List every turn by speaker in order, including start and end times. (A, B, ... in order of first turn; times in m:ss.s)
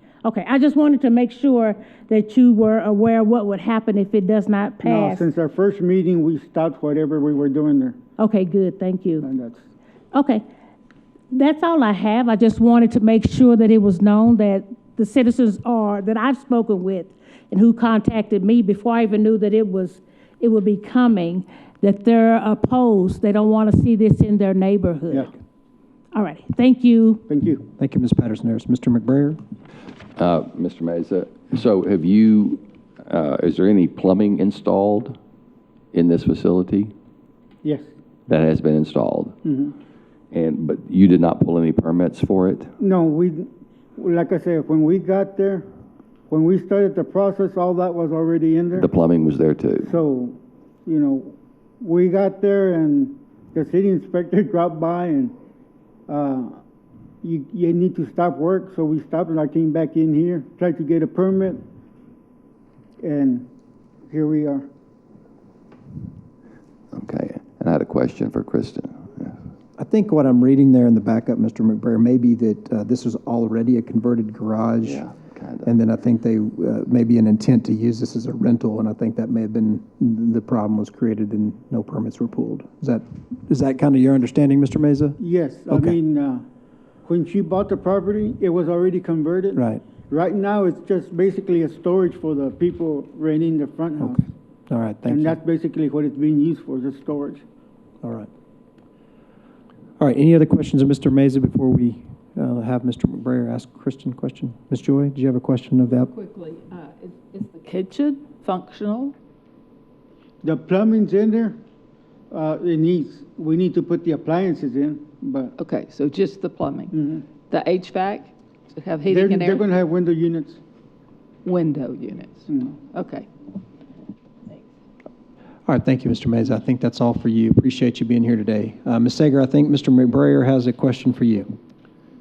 0:00.2-0:05.2 A
0:04.8-0:08.0 B
0:08.2-0:09.2 A
0:09.2-0:09.6 B
0:10.1-0:10.4 A
0:11.3-0:25.3 A
0:26.1-0:27.2 A
0:27.3-0:27.6 B
0:27.8-0:29.4 C
0:30.2-0:35.2 D
0:35.9-0:36.9 D
0:38.3-0:39.3 D
0:39.4-0:39.7 B
0:40.3-0:42.7 D
0:42.8-0:45.7 B
0:46.3-0:48.9 B
0:48.8-0:50.0 D
0:49.8-0:55.3 B
0:56.1-0:56.6 B
0:57.2-1:01.6 B
1:03.0-1:03.5 B
1:04.1-1:04.6 B
1:06.9-1:09.4 D
1:09.8-1:15.0 C
1:14.8-1:15.7 D
1:15.6-1:26.0 C
1:25.2-1:26.4 B
1:27.0-1:34.2 B
1:29.5-1:29.8 C
1:34.0-1:35.4 C
1:35.0-1:37.4 B
1:38.0-1:38.3 C
1:40.0-1:46.1 C
1:45.9-1:49.1 E
1:50.4-1:51.6 B
1:52.3-1:55.5 B
1:55.6-1:59.6 E
1:56.9-1:57.2 B
1:59.1-2:00.6 B
2:01.4-2:03.3 E
2:02.5-2:02.8 B
2:05.6-2:11.6 C